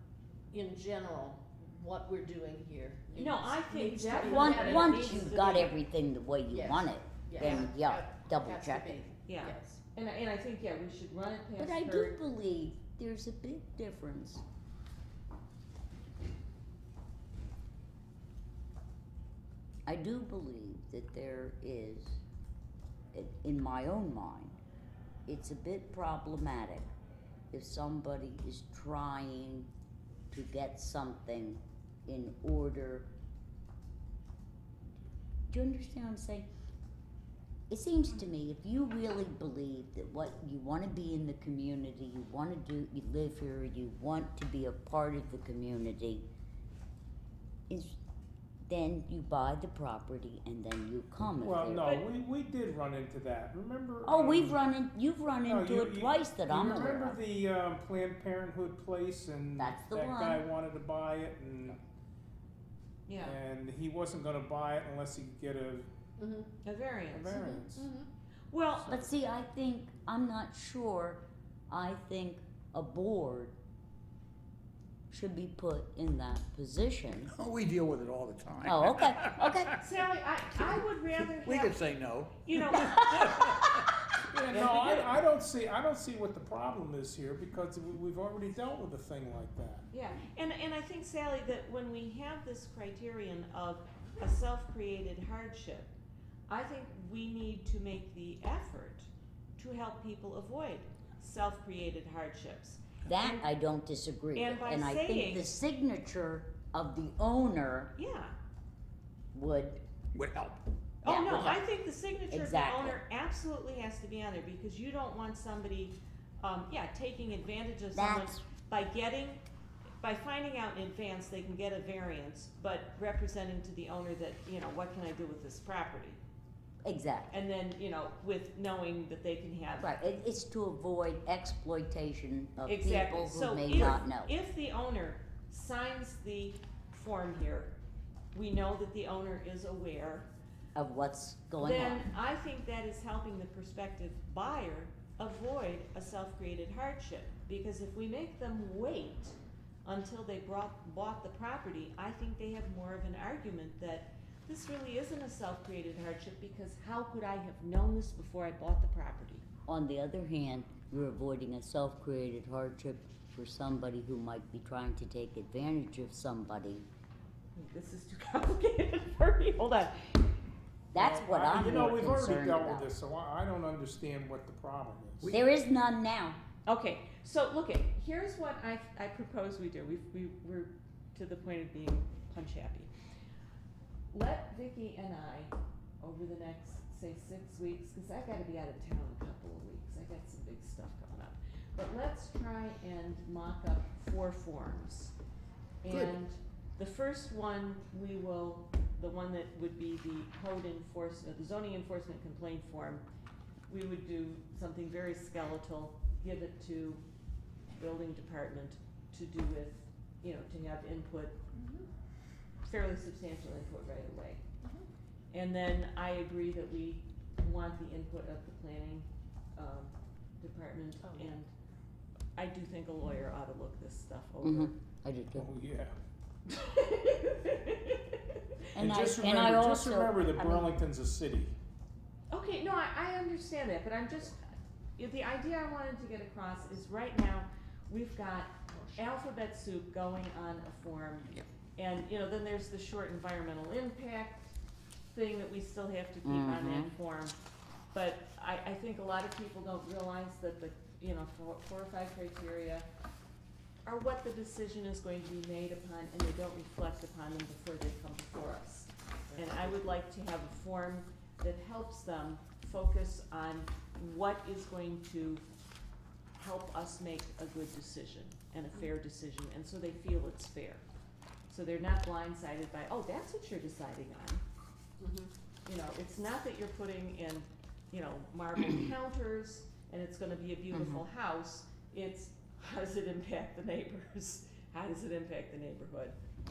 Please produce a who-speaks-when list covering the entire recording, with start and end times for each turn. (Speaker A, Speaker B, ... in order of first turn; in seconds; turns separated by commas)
Speaker A: 0.5-5.5, Speaker B: 3.1-5.7, Speaker C: 4.1-9.1, Speaker A: 6.5-9.8, Speaker B: 9.3-12.2, Speaker C: 11.6-14.4, Speaker C: 19.9-22.2, Speaker C: 23.1-24.6, Speaker C: 25.3-26.9, Speaker C: 27.5-29.7, Speaker C: 30.3-33.1, Speaker C: 35.5-36.5, Speaker C: 37.7-46.3, Speaker C: 47.7-48.0, Speaker C: 48.6-51.9, Speaker D: 51.3-54.6, Speaker B: 51.8-52.0, Speaker C: 54.0-57.2, Speaker D: 55.5-61.8, Speaker C: 59.6-60.4, Speaker B: 63.1-63.4, Speaker D: 63.2-65.9, Speaker A: 66.2-66.5, Speaker B: 66.6-67.8, Speaker D: 67.1-67.8, Speaker A: 67.3-68.0, Speaker B: 68.5-69.0, Speaker C: 68.8-73.5, Speaker C: 75.1-77.3, Speaker E: 77.2-79.8, Speaker C: 78.6-79.7, Speaker B: 79.8-81.8, Speaker E: 81.3-83.9, Speaker B: 82.4-83.7, Speaker D: 84.3-89.9, Speaker B: 84.5-85.2, Speaker B: 89.9-95.9, Speaker B: 96.5-103.4, Speaker C: 103.0-107.9, Speaker B: 104.3-105.5, Speaker B: 107.9-108.4, Speaker C: 109.3-109.8, Speaker E: 110.1-110.6, Speaker B: 111.0-119.4, Speaker C: 111.0-111.6, Speaker C: 112.3-113.0, Speaker C: 117.9-118.4, Speaker B: 120.0-126.2, Speaker C: 126.8-127.4, Speaker B: 127.3-129.9, Speaker C: 129.8-134.3, Speaker B: 132.7-137.7, Speaker B: 138.3-140.3, Speaker C: 140.8-142.1, Speaker B: 141.6-159.4, Speaker C: 159.7-166.9, Speaker B: 167.5-170.3, Speaker C: 170.9-172.9, Speaker D: 170.9-175.4, Speaker C: 175.2-176.4, Speaker B: 176.7-182.9, Speaker B: 184.1-195.1, Speaker B: 195.8-203.0, Speaker B: 203.7-207.0, Speaker B: 207.7-211.4, Speaker A: 211.5-211.9, Speaker B: 212.6-214.4, Speaker B: 215.3-221.5, Speaker A: 221.1-221.3, Speaker B: 222.3-224.8, Speaker C: 224.4-225.5, Speaker D: 225.3-225.9, Speaker B: 226.5-228.6, Speaker C: 228.7-230.7, Speaker D: 228.8-231.5, Speaker B: 232.3-244.5, Speaker B: 245.1-247.4, Speaker C: 246.2-246.9, Speaker B: 247.9-252.9, Speaker B: 253.8-265.4, Speaker A: 259.3-259.6, Speaker B: 266.4-270.8, Speaker B: 271.5-274.4, Speaker A: 275.0-275.3, Speaker B: 275.6-286.1, Speaker C: 280.7-281.0